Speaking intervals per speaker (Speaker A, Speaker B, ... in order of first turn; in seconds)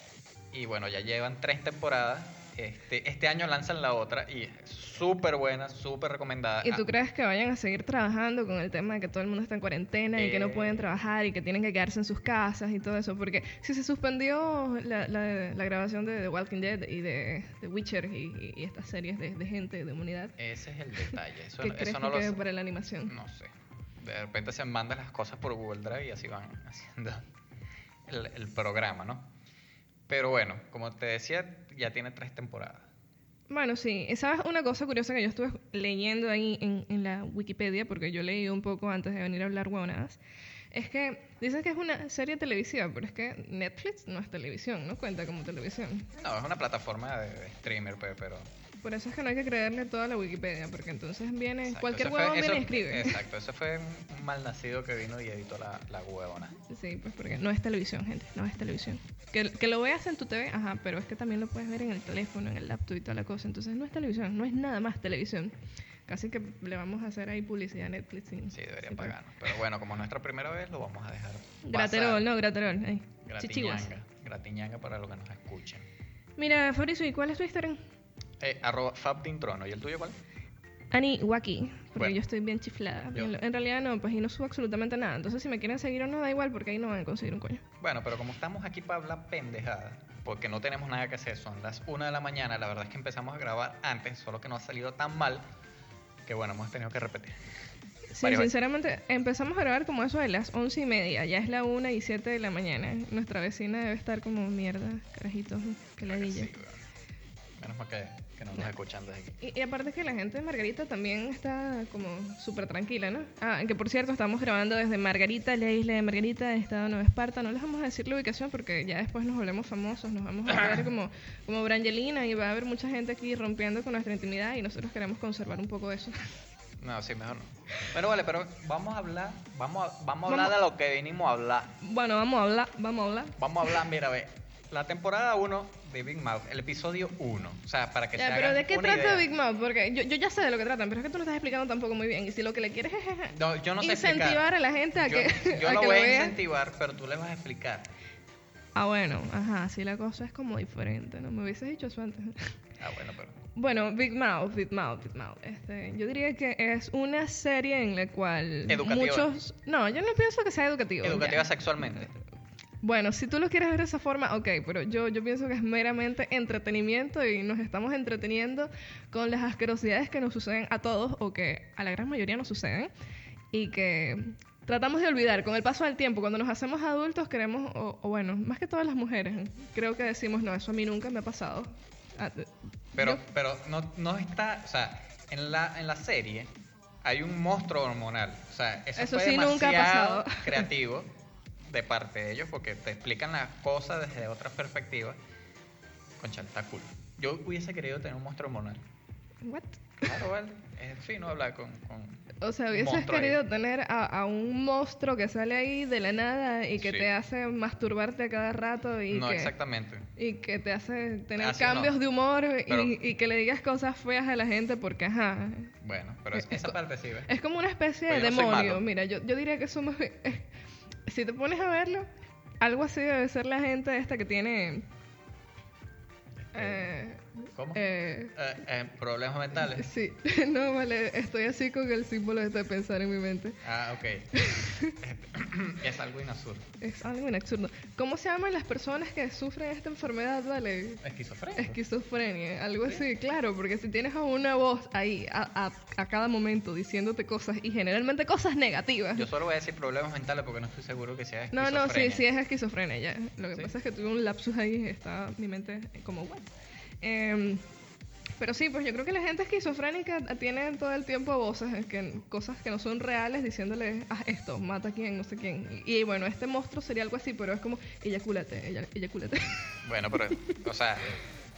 Speaker A: 0.5-6.9, 10.2-10.8, 20.4-22.4, 23.1-27.3, 28.1-29.3, 30.1-32.9, 46.2-48.5, 51.7-56.6, 68.5-72.3, 73.2-75.9, 78.4-80.2, 87.8-95.4, 96.3-97.4, 98.2-98.5, 106.0-106.8, 107.6-109.4, 126.8-131.8, 133.4-139.3, 143.3-147.9, 152.8-153.4, 158.7-159.3, 161.0-162.1, 183.0-191.1, 191.6-195.2, 196.2-198.8, 200.0-203.4, 206.8-207.1, 209.1-210.1, 211.4-212.0, 212.7-212.9, 215.8-217.3, 218.1-218.8, 226.5-226.9, 227.5-229.9, 233.6-236.7, 241.0-241.8, 249.2-252.2, 269.8-271.2
Speaker B: 6.6-20.4, 21.6-23.1, 33.5-40.2, 40.7-46.1, 48.8-53.2, 56.7-65.5, 66.1-69.1, 71.6-73.9, 76.4-77.8, 80.9-87.6, 98.1-106.5, 109.4-126.3, 130.3-130.5, 131.8-133.7, 138.2-146.3, 148.8-152.6, 153.6-161.5, 162.8-172.9, 173.5-183.2, 189.0-190.7, 199.4-200.0, 202.4-209.5, 210.2-215.7, 216.3-216.8, 217.3-220.5, 221.1-224.9, 226.5-228.3, 229.6-233.6, 234.3-234.9, 236.8-241.0, 241.6-249.3, 251.5-257.6, 258.4-269.7